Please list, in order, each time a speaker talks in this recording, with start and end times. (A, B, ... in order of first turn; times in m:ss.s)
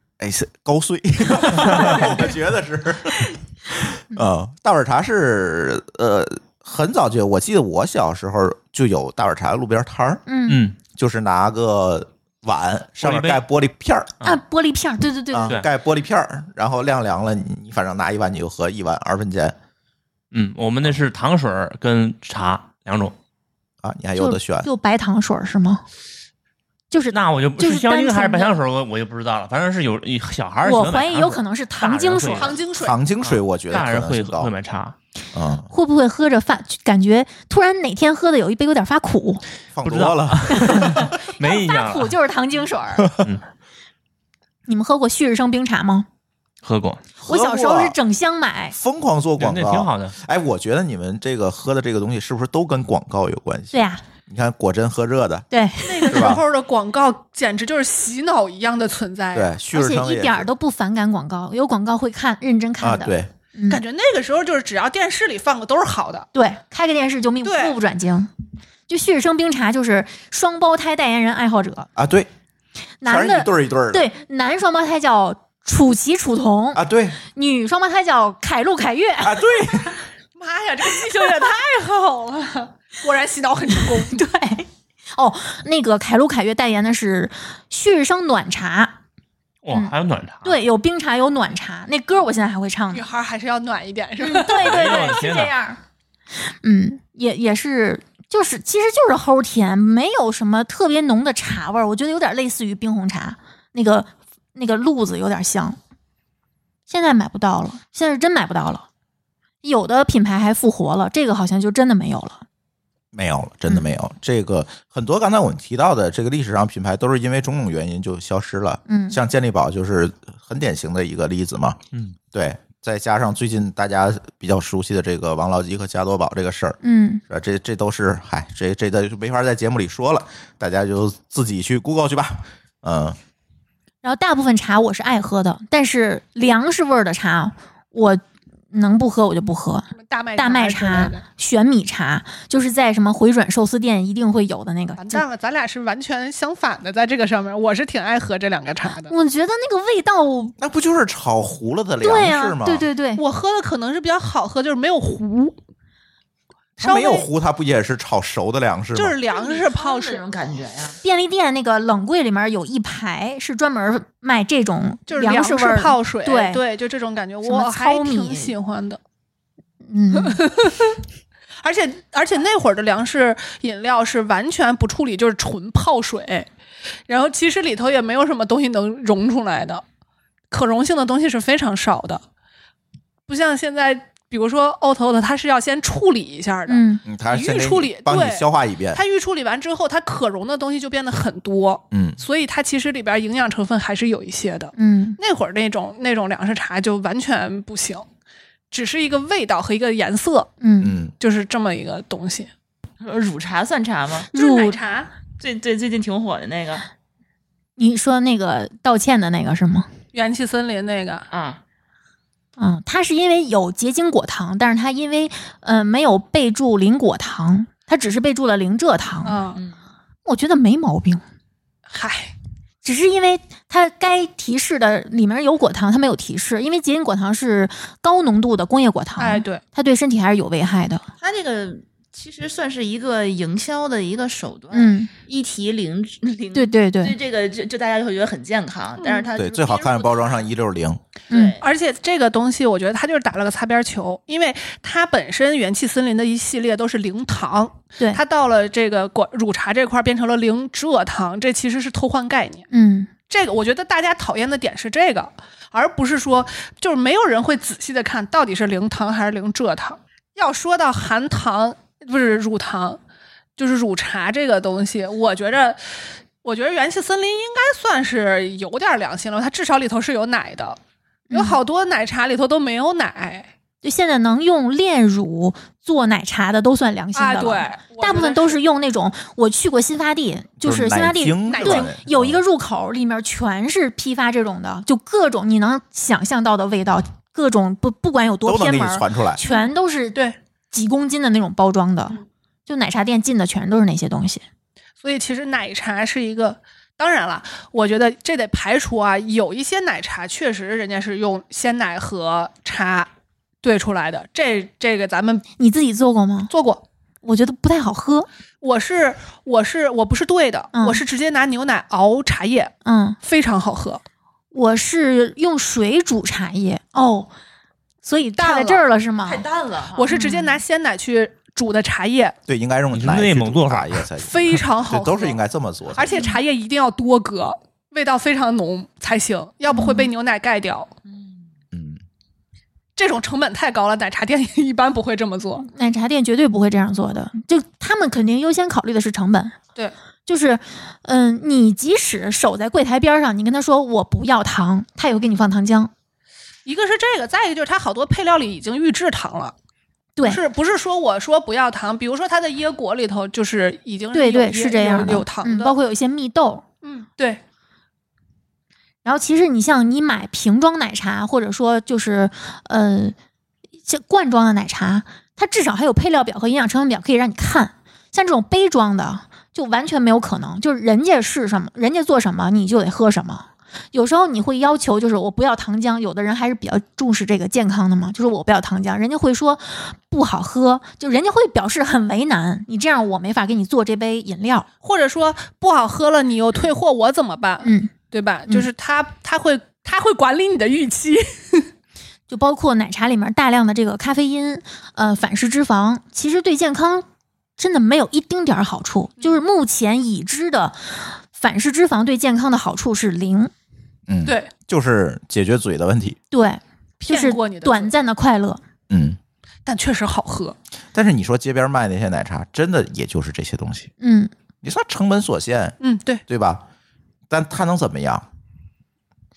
0:00.2-0:10.2 A
0:10.2-0:10.6 B
0:10.5-0:10.8 C
0:10.9-0:14.1 A
0:13.0-0:13.4 C
0:14.2-0:15.6 B
0:15.3-0:19.6 A
0:20.3-0:23.1 C
0:23.8-0:24.7 A
0:24.2-0:25.8 B
0:26.9-0:28.6 B
0:27.1-0:32.6 C
0:30.6-0:32.6 B
0:32.3-0:33.0 D
0:32.8-0:34.5 A
0:33.2-0:34.9 C
0:35.3-0:35.7 A
0:35.7-0:39.4 B
0:39.7-0:41.1 A
0:39.8-0:42.1 C
0:40.5-0:43.1 B
0:44.7-0:46.1 B
0:46.6-0:47.0 C
0:47.2-0:48.0 A
0:47.2-0:48.8 B
0:48.7-0:55.5 A
0:49.4-0:50.1 C
0:53.7-0:54.0 B
0:55.5-0:56.3 B
0:55.8-0:59.5 D
0:56.1-0:56.4 A
0:59.3-1:00.5 A
0:59.7-1:03.8 B
1:02.8-1:03.3 A
1:03.7-1:06.3 D
1:06.3-1:08.3 B
1:07.4-1:07.8 D
1:08.9-1:11.9 B
1:12.0-1:12.3 A
1:13.0-1:19.4 B
1:13.0-1:14.0 A
1:16.7-1:17.2 A
1:19.2-1:20.0 A
1:20.4-1:24.2 D
1:23.9-1:29.0 B
1:29.6-1:30.6 C
1:30.4-1:33.0 B
1:32.9-1:35.1 D
1:34.2-1:35.8 B
1:34.5-1:35.5 C
1:36.6-1:45.8 B
1:46.9-1:48.8 B
1:49.6-1:52.4 B
1:53.1-2:01.8 A
1:58.9-1:59.2 B
2:02.3-2:06.8 A
2:06.8-2:07.2 B
2:07.3-2:13.2 A
2:14.0-2:25.2 B
2:19.9-2:21.2 D
2:25.0-2:29.1 D
2:29.0-2:30.6 B
2:30.6-2:32.8 A
2:32.0-2:33.2 B
2:33.2-2:35.6 D
2:36.8-2:39.2 A
2:36.8-2:37.3 D
2:38.9-2:40.2 D
2:39.3-2:41.0 E
2:41.0-2:46.6 B
2:45.1-2:49.0 D
2:47.4-2:48.5 B
2:49.9-2:50.4 B
2:50.2-2:51.0 D
2:51.6-2:56.5 D
2:57.1-2:59.8 D
3:00.5-3:02.2 D
3:03.3-3:18.1 D
3:06.7-3:07.0 B
3:07.0-3:09.0 A
3:11.9-3:12.2 A
3:14.8-3:15.2 B
3:18.7-3:20.5 D
3:20.6-3:21.0 B
3:20.8-3:21.1 A
3:21.2-3:22.5 D
3:23.0-3:24.3 E
3:24.3-3:24.8 B
3:24.3-3:25.1 D
3:25.3-3:26.9 E
3:27.8-3:29.9 B
3:30.1-3:31.2 D
3:31.3-3:31.6 E
3:32.6-3:39.4 B
3:39.2-3:39.6 D
3:40.2-3:41.2 B
3:41.9-3:42.3 D
3:42.8-3:51.0 B
3:49.2-3:49.6 D
3:51.2-4:00.4 E
3:54.7-3:55.1 B
3:56.5-3:57.1 B
3:59.0-3:59.3 D
3:59.4-4:01.0 A
4:01.3-4:01.6 B
4:01.3-4:01.6 E
4:01.6-4:12.7 D
4:12.7-4:13.1 B
4:13.3-4:23.0 D
4:23.6-4:25.8 D
4:26.4-4:30.8 D
4:31.3-4:31.6 B
4:31.3-4:33.5 D
4:33.8-4:54.4 B
4:37.1-4:38.6 D
4:40.6-4:42.4 A
4:41.5-4:41.9 D
4:48.4-4:49.4 A
4:49.5-4:50.4 D
4:55.0-5:03.1 D
5:03.6-5:05.4 D
5:05.6-5:06.5 B
5:06.5-5:06.8 D
5:07.2-5:08.3 B
5:08.6-5:14.0 D
5:10.7-5:11.0 B
5:12.8-5:13.2 B
5:14.5-5:17.3 B
5:18.0-5:19.4 B
5:18.4-5:18.8 D
5:19.2-5:20.1 E
5:19.9-5:22.4 D
5:20.1-5:20.6 B
5:22.5-5:26.2 A
5:22.9-5:24.0 C
5:24.2-5:25.4 D
5:25.9-5:30.9 D
5:26.1-5:26.4 B
5:29.7-5:30.1 B
5:31.1-5:31.3 E
5:31.7-5:32.0 A
5:33.0-5:35.7 D
5:35.7-5:39.6 B
5:40.2-5:45.9 B
5:46.6-5:49.5 D
5:50.2-5:50.4 B
5:50.2-5:55.7 D
5:54.1-5:56.6 B
5:56.8-5:57.4 D
5:59.0-6:03.1 B
6:03.8-6:24.7 B
6:24.8-6:31.7 D
6:27.6-6:27.9 B
6:32.3-6:37.0 B
6:37.6-6:43.5 B
6:44.1-6:46.2 A
6:46.3-6:48.6 B
6:47.1-6:47.9 D
6:48.9-6:49.2 A
6:49.6-6:50.6 D
6:50.9-6:53.9 A
6:54.0-6:54.3 B
6:54.6-6:56.6 A
6:55.8-6:56.2 D
6:57.3-6:58.2 A